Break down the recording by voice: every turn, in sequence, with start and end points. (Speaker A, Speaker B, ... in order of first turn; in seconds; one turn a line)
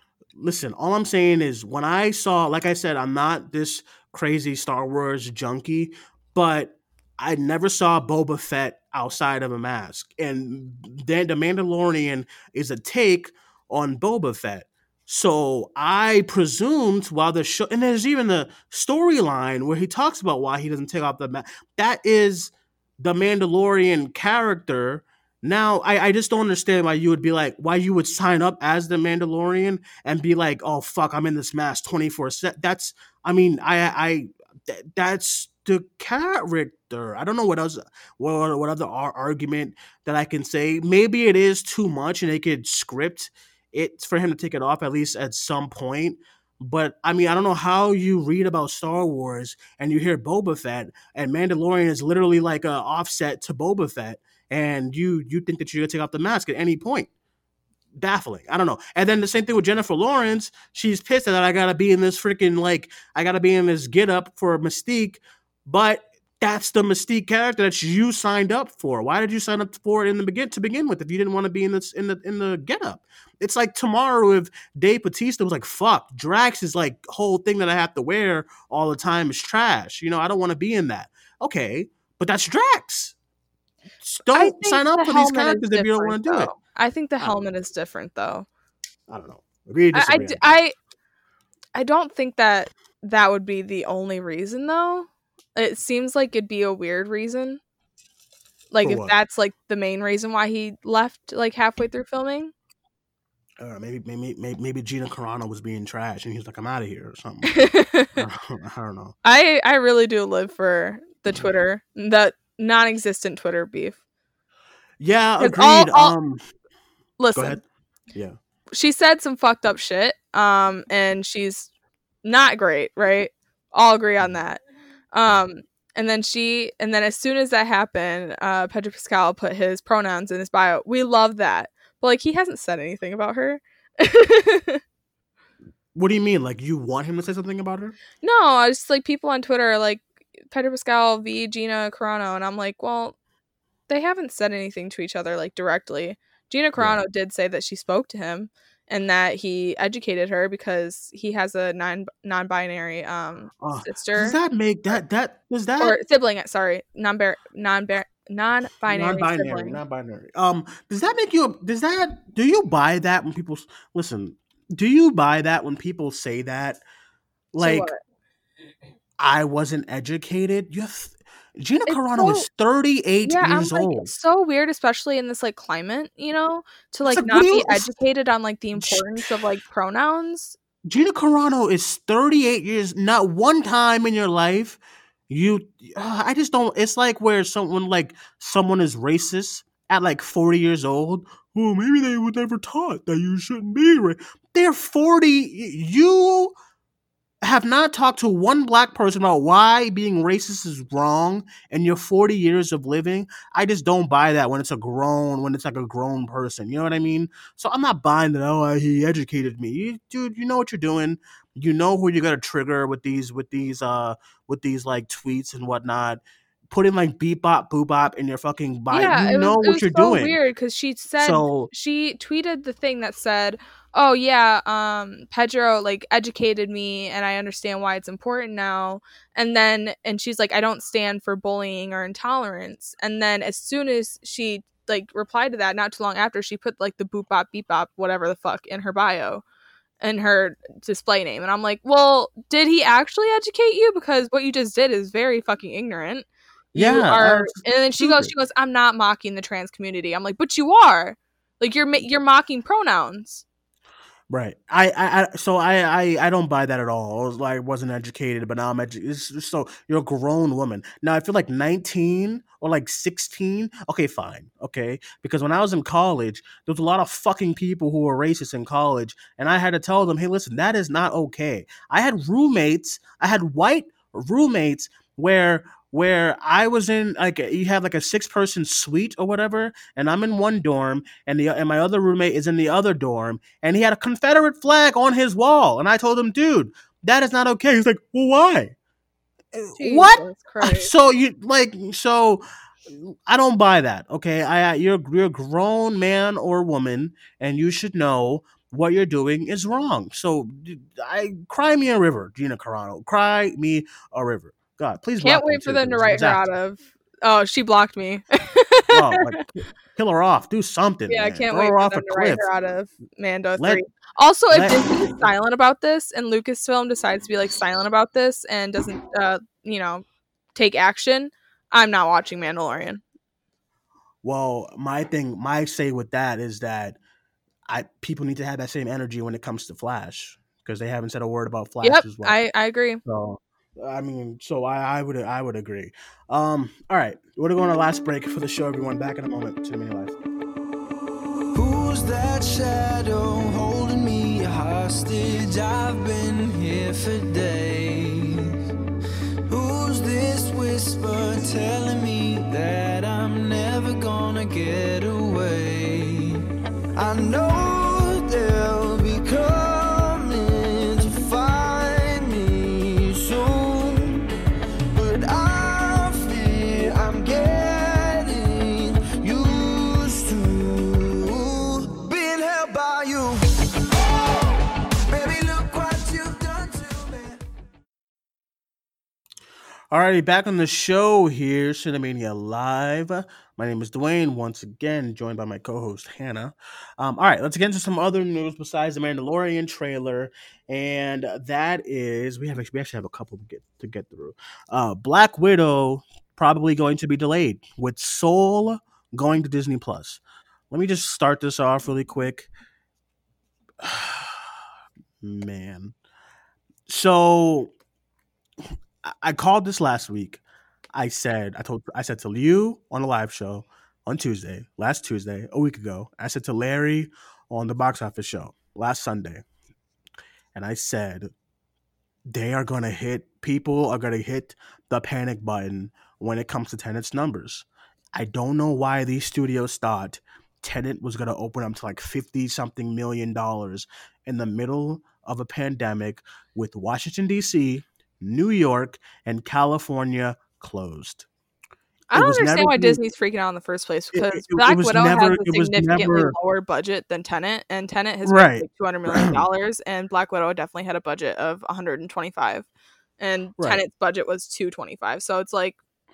Speaker A: 0.3-57.1
Speaker A: 58.0-83.1
Speaker A: 84.0-86.5
Speaker B: 84.3-88.5
Speaker A: 87.2-87.4
Speaker A: 89.1-90.4
Speaker B: 89.9-90.7
Speaker B: 91.7-97.6
Speaker B: 98.7-102.5
Speaker A: 98.8-99.1
Speaker A: 103.6-109.1
Speaker B: 107.5-108.1
Speaker B: 109.2-114.0
Speaker A: 115.0-116.4
Speaker B: 115.4-116.2
Speaker B: 117.2-117.6
Speaker A: 117.3-117.6
Speaker B: 118.7-121.7
Speaker B: 122.2-124.6
Speaker B: 125.1-134.8
Speaker A: 135.9-137.9
Speaker B: 138.2-143.2
Speaker B: 143.9-154.4
Speaker A: 146.8-147.0
Speaker A: 153.6-156.0
Speaker B: 155.8-159.8
Speaker A: 158.9-166.8
Speaker A: 167.5-167.9
Speaker B: 167.6-168.0
Speaker A: 169.2-174.1
Speaker B: 171.9-172.4
Speaker B: 173.2-180.6
Speaker A: 177.1-177.9
Speaker A: 178.7-179.3
Speaker A: 180.9-196.6
Speaker A: 197.4-220.4
Speaker B: 218.9-239.4
Speaker A: 221.2-221.7
Speaker B: 240.0-253.4
Speaker A: 246.7-248.3
Speaker A: 254.3-288.7
Speaker A: 289.5-306.4
Speaker B: 289.8-290.9
Speaker B: 305.2-309.4
Speaker A: 308.9-312.4
Speaker B: 311.1-320.0
Speaker A: 314.5-315.2
Speaker B: 320.6-323.0
Speaker A: 324.2-327.0
Speaker A: 327.7-332.4
Speaker B: 331.8-333.0
Speaker A: 333.1-340.1
Speaker C: 341.5-348.5
Speaker C: 349.5-356.4
Speaker C: 356.9-364.2
Speaker C: 364.9-373.4
Speaker C: 374.1-374.5
Speaker C: 375.1-377.4
Speaker A: 379.9-402.5
Speaker A: 403.8-404.4
Speaker A: 405.2-405.9
Speaker A: 406.9-407.7
Speaker A: 409.0-410.4
Speaker A: 410.9-419.4
Speaker A: 420.6-421.3
Speaker A: 422.3-441.3
Speaker B: 442.1-452.7
Speaker A: 442.1-443.0
Speaker A: 444.1-446.3
Speaker A: 448.2-449.4
Speaker B: 453.2-455.8